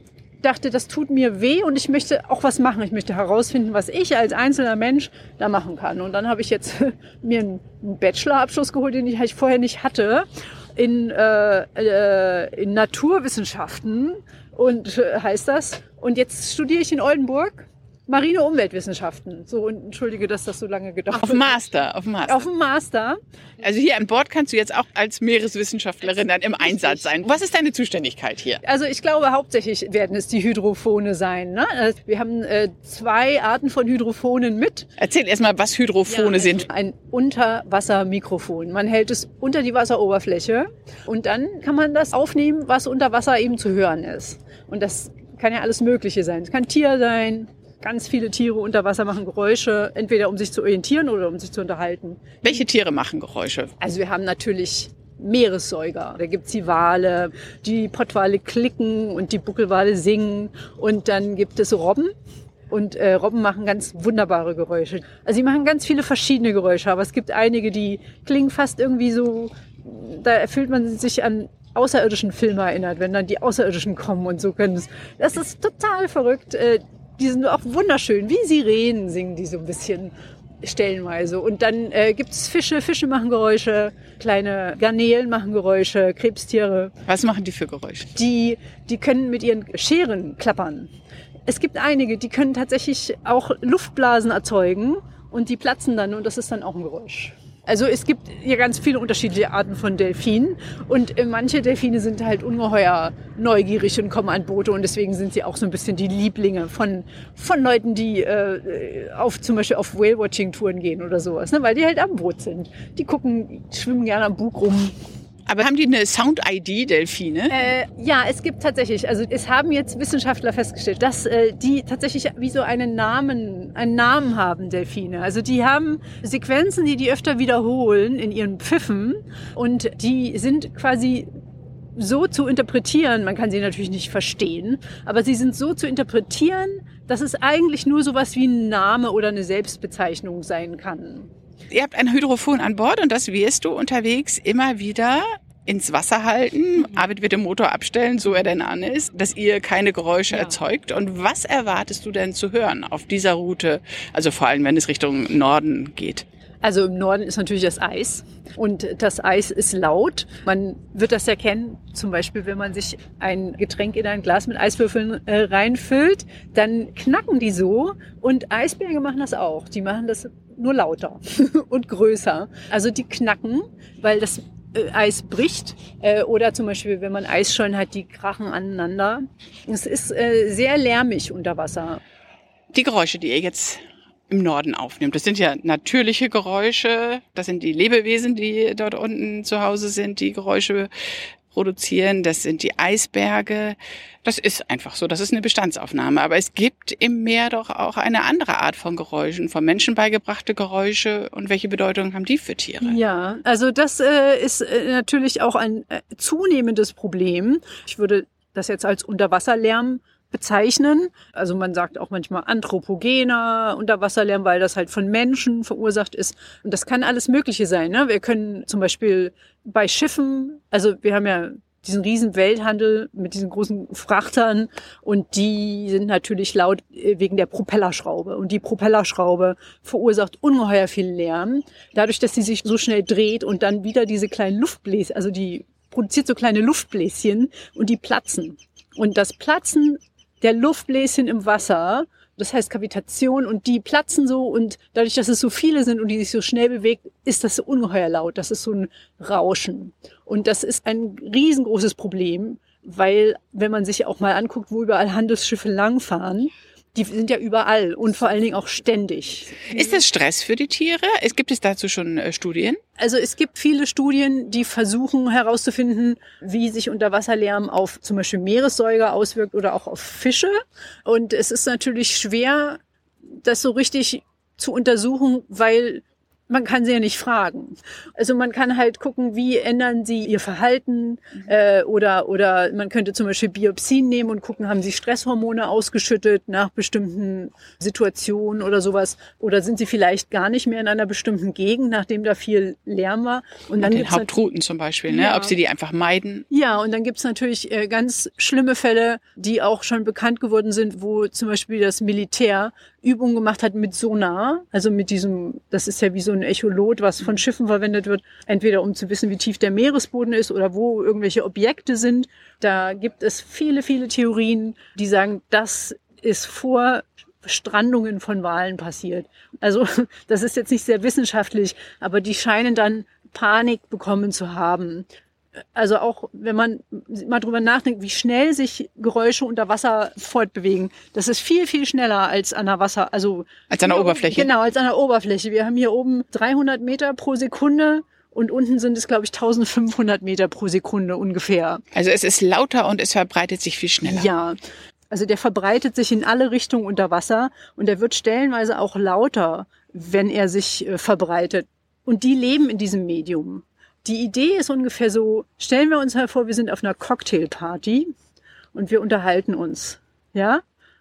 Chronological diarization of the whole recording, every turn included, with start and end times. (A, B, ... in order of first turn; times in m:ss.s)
0:00.4-0:21.6 A
0:21.1-0:22.5 B
0:22.2-0:23.2 A
0:23.6-0:28.6 B
0:26.2-0:27.1 A
0:28.6-0:34.9 A
0:35.0-0:36.7 B
0:36.1-0:52.6 A
0:52.4-0:53.7 B
0:53.8-1:02.1 A
1:02.7-1:26.9 A
1:27.0-1:28.1 B
1:28.1-1:30.9 A
1:31.5-1:54.9 A
1:55.5-1:57.5 B
1:57.5-2:11.3 A
2:12.0-2:21.3 A
2:21.7-2:36.2 B
2:36.6-3:02.0 A
3:02.7-3:10.9 B
3:11.5-3:23.0 B
3:22.8-4:20.0 A
4:19.7-4:22.8 B
4:23.0-4:32.8 A
4:33.4-4:54.4 A
4:53.8-4:56.5 B
4:55.1-4:55.5 A
4:56.5-5:25.0 A
5:25.8-5:41.8 A
5:33.7-5:34.5 B
5:41.9-5:44.3 B
5:44.0-5:44.6 A
5:45.1-5:58.1 A
5:58.7-6:00.6 A